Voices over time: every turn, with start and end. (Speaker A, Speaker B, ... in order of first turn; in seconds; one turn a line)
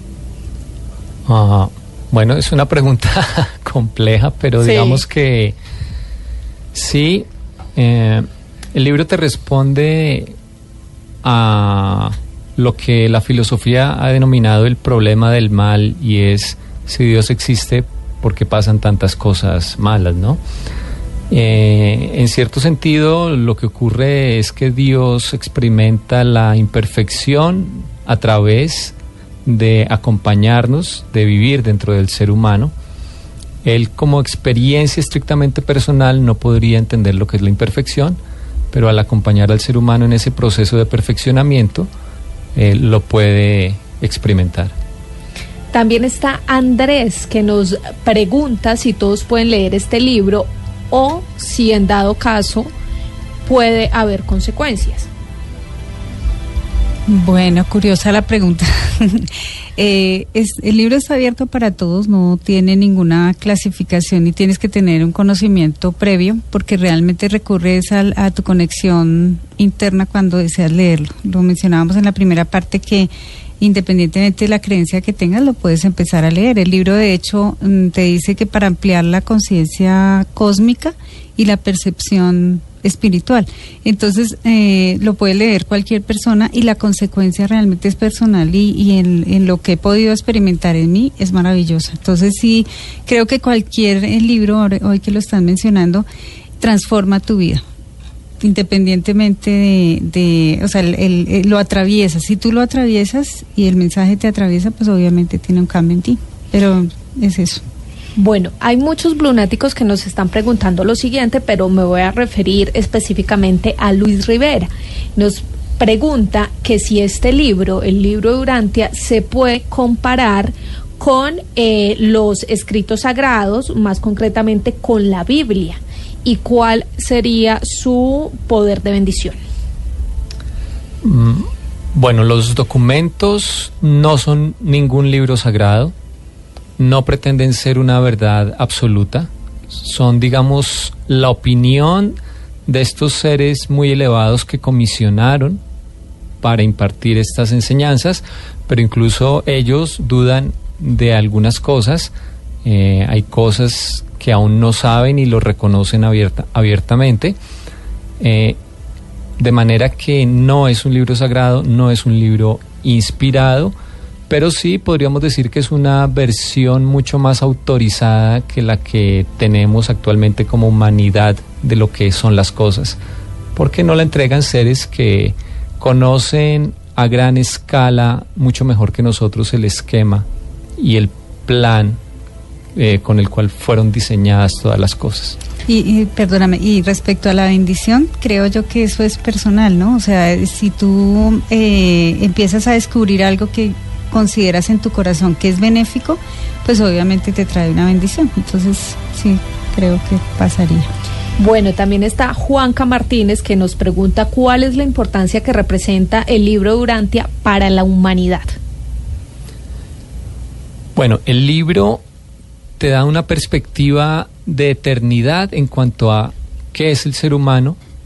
Speaker A: 1.3-5.6
Speaker B: 4.6-5.0
Speaker A: 6.7-10.3
Speaker A: 11.2-20.4
Speaker A: 21.3-28.9
Speaker A: 29.4-32.7
Speaker A: 33.6-38.2
Speaker A: 38.7-41.9
Speaker A: 42.5-44.7
Speaker B: 45.7-52.7
Speaker B: 53.5-55.1
Speaker C: 57.1-96.1
Speaker C: 96.6-97.6
Speaker C: 98.4-107.6
Speaker B: 108.2-129.4
Speaker A: 131.0-135.9
Speaker A: 136.8-145.6
Speaker A: 146.4-152.1
Speaker A: 152.7-157.4
Speaker A: 158.2-158.6
Speaker A: 159.4-163.7
Speaker A: 164.3-173.0
Speaker A: 173.6-180.3
Speaker A: 180.8-182.0
Speaker A: 182.8-185.4
Speaker C: 185.7-200.9
Speaker B: 201.4-208.6
Speaker A: 211.0-212.0
Speaker A: 212.8-217.8